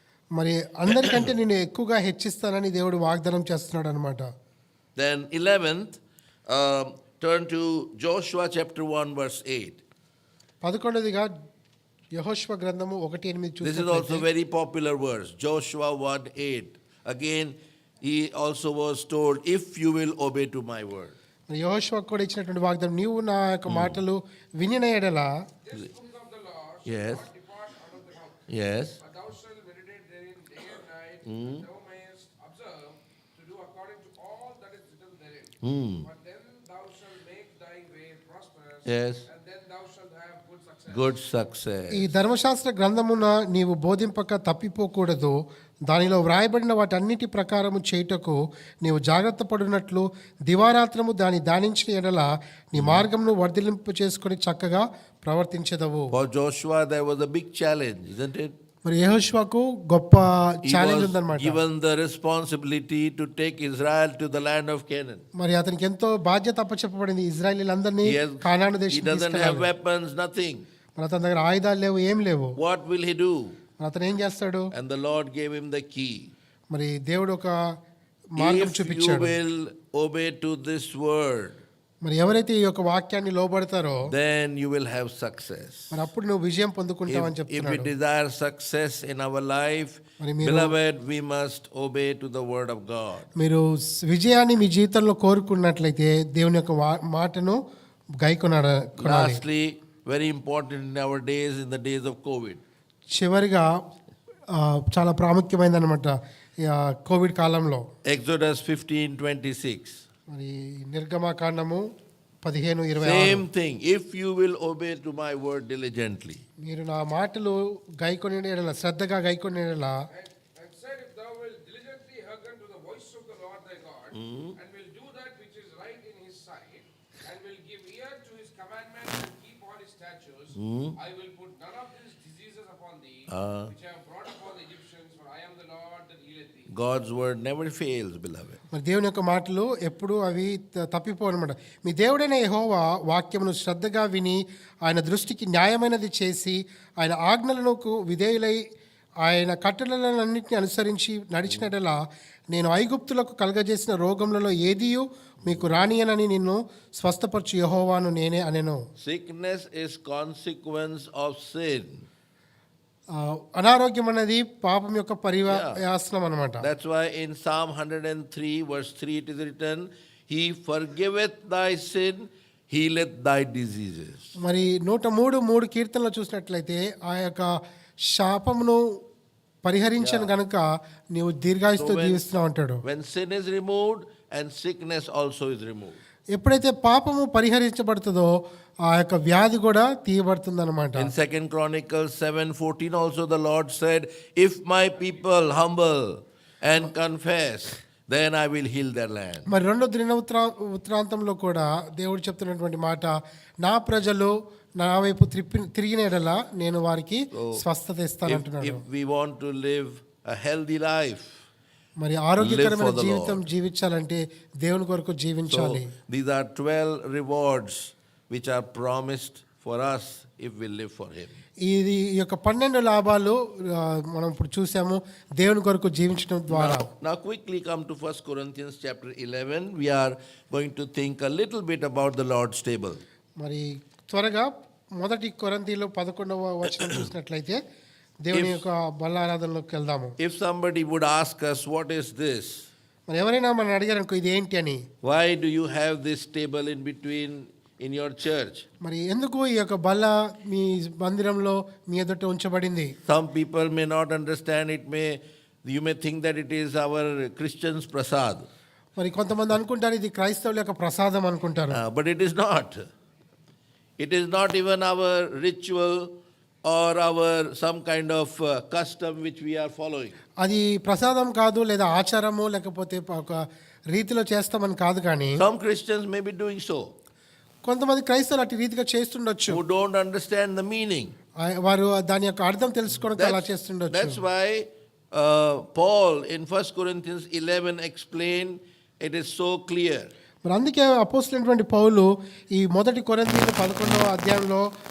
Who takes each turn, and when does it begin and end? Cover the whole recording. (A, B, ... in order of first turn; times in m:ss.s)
0:00.4-0:04.2 A
0:01.0-0:01.2 B
0:05.0-0:09.8 B
0:10.6-0:11.3 A
0:12.1-0:14.3 A
0:13.6-0:21.2 B
0:21.5-0:25.3 A
0:23.7-0:24.0 B
0:25.6-0:28.5 C
0:26.9-0:27.3 B
0:28.5-0:29.0 B
0:29.0-0:41.1 C
0:31.3-0:31.6 B
0:35.6-0:36.1 B
0:38.9-0:39.3 B
0:40.9-0:42.1 B
0:41.9-0:45.3 A
0:45.9-0:56.1 A
0:52.8-0:53.1 B
0:56.1-0:58.5 B
0:58.8-1:01.6 A
1:00.6-1:05.2 B
1:05.4-1:09.7 A
1:08.0-1:10.6 B
1:11.0-1:12.6 A
1:12.6-1:13.6 B
1:13.8-1:14.7 A
1:14.7-1:16.3 B
1:16.7-1:17.6 A
1:18.4-1:19.4 A
1:18.4-1:21.6 B
1:22.0-1:24.1 A
1:24.1-1:26.0 B
1:25.9-1:27.9 A
1:27.1-1:33.3 B
1:30.2-1:30.8 A
1:33.4-1:37.6 A
1:38.2-1:39.4 A
1:39.0-1:42.6 B
1:43.2-1:43.7 A
1:44.6-1:47.8 A
1:48.1-1:50.0 B
1:50.3-1:51.8 A
1:52.4-1:53.4 A
1:53.0-1:56.4 B
1:56.6-2:00.0 A
2:00.1-2:16.7 C
2:04.1-2:04.6 B
2:10.6-2:11.0 B
2:13.3-2:13.7 B
2:16.7-2:18.6 B
2:18.7-2:28.6 A
2:29.2-2:32.0 A
2:32.5-2:38.8 A
2:35.4-2:35.7 B
2:39.0-2:42.1 B
2:43.2-2:46.7 A
2:45.5-2:45.8 B
2:46.6-2:54.3 B
2:54.4-2:57.6 A
2:58.1-2:58.8 A
2:59.6-3:02.8 A
3:00.0-3:00.3 B
3:01.8-3:02.2 B
3:02.8-3:06.0 B
3:06.4-3:08.3 A
3:08.9-3:11.1 A
3:11.0-3:19.5 B
3:19.5-3:28.8 A
3:27.3-3:27.6 B
3:28.3-3:31.4 B
3:32.0-3:35.9 A
3:32.4-3:33.4 B
3:35.5-3:41.4 B
3:41.7-3:46.9 A
3:46.5-3:53.0 B
3:53.4-3:57.6 A
3:56.8-3:57.0 B
3:58.2-4:00.2 A
3:58.3-3:58.6 B
4:00.2-4:02.7 B
4:03.1-4:04.8 A
4:05.0-4:08.7 B
4:08.8-4:12.9 A
4:13.1-4:18.5 B
4:19.0-4:21.8 A
4:21.7-4:22.9 B
4:24.0-4:26.1 B
4:26.6-4:30.2 B
4:30.4-4:35.4 A
4:35.4-4:36.9 B
4:37.7-4:39.6 A
4:39.5-4:41.1 B
4:41.4-4:44.2 A
4:43.1-4:50.1 B
4:50.5-4:54.6 A